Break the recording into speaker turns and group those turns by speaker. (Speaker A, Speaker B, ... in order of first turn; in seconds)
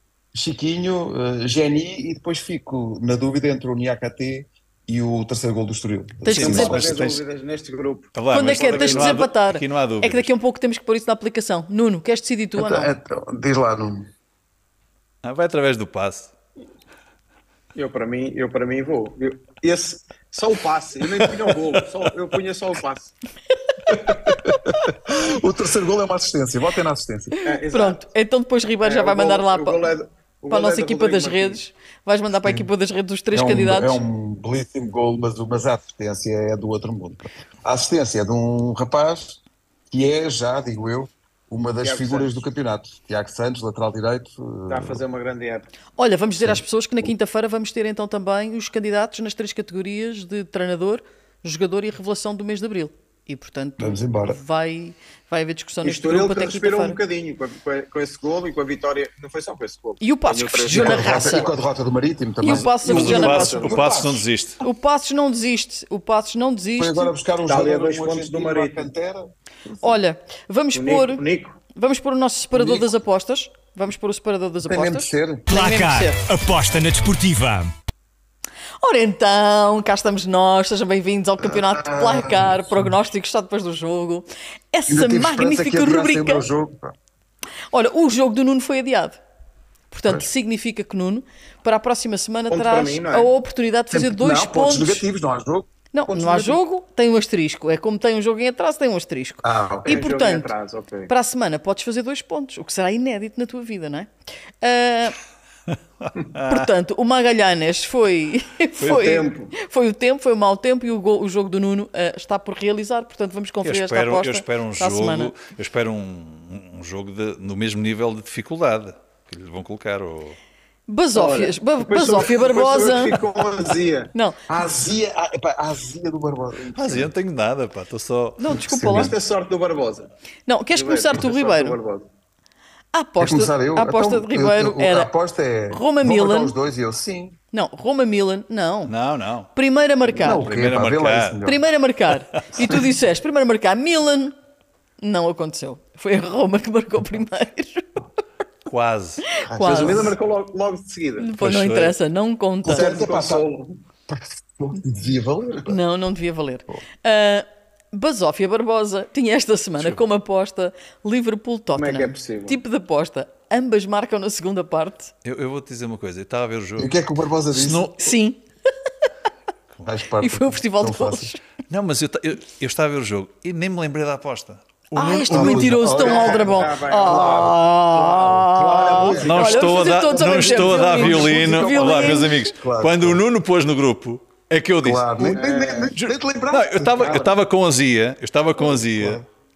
Speaker A: 0.3-7.2, 12.6-14.1, 23.9-27.3, 32.4-32.7, 33.3-45.0, 46.4-47.1, 53.8-54.4, 60.6-64.2, 66.8-69.3, 72.5-72.9, 74.6-75.4, 81.4-83.0, 84.9-86.9, 93.9-96.6, 99.4-100.1, 124.5-127.1, 128.6-129.1, 133.2-137.4, 140.1-141.7, 149.5-150.2, 152.6-153.5, 154.1-155.8, 166.8-167.9, 169.8-171.3, 175.3-176.7, 178.4-183.2, 184.8-187.3, 188.6-189.2
Speaker B: 6.2-6.9, 8.3-12.9, 27.4-29.9, 30.5-34.0, 46.0-57.0, 60.0-61.5, 62.4-63.8, 64.6-67.1, 69.8-76.2, 78.8-86.5, 87.7-89.2, 89.9-95.0, 95.9-100.5, 101.1-105.2, 106.5-115.3, 120.9-123.2, 124.1-124.4, 128.4-129.1, 130.5-131.8, 132.9-135.1, 135.7-136.5, 137.5-138.9, 139.5-140.5, 141.4-144.3, 145.0-148.1, 149.4-150.1, 151.2-153.0, 155.7-165.1, 168.0-168.4, 170.2-171.4, 174.9-182.4
Speaker C: 6.3-7.2, 8.1-10.3, 15.2-16.3, 21.1-22.0, 62.5-64.6, 106.0-106.7, 113.6-120.4, 126.7-128.6, 138.9-139.5, 140.2-141.4, 148.7-149.2, 151.4-151.9, 165.2-166.9, 167.5-168.1, 171.7-175.8, 179.1-185.4, 185.9-189.2
Speaker D: 6.4-9.2, 17.7-23.1, 27.4-28.1, 28.8-31.6, 41.8-42.3, 44.7-45.7, 55.8-61.5, 63.0-63.5, 67.5-68.8, 70.7-71.6, 92.5-93.3, 99.8-101.1, 108.8-109.5, 121.1-124.1, 128.8-130.1, 130.7-132.1, 149.6-151.3, 152.7-153.8, 161.7-162.6, 175.9-179.7, 185.2-185.9
Speaker E: 75.5-77.7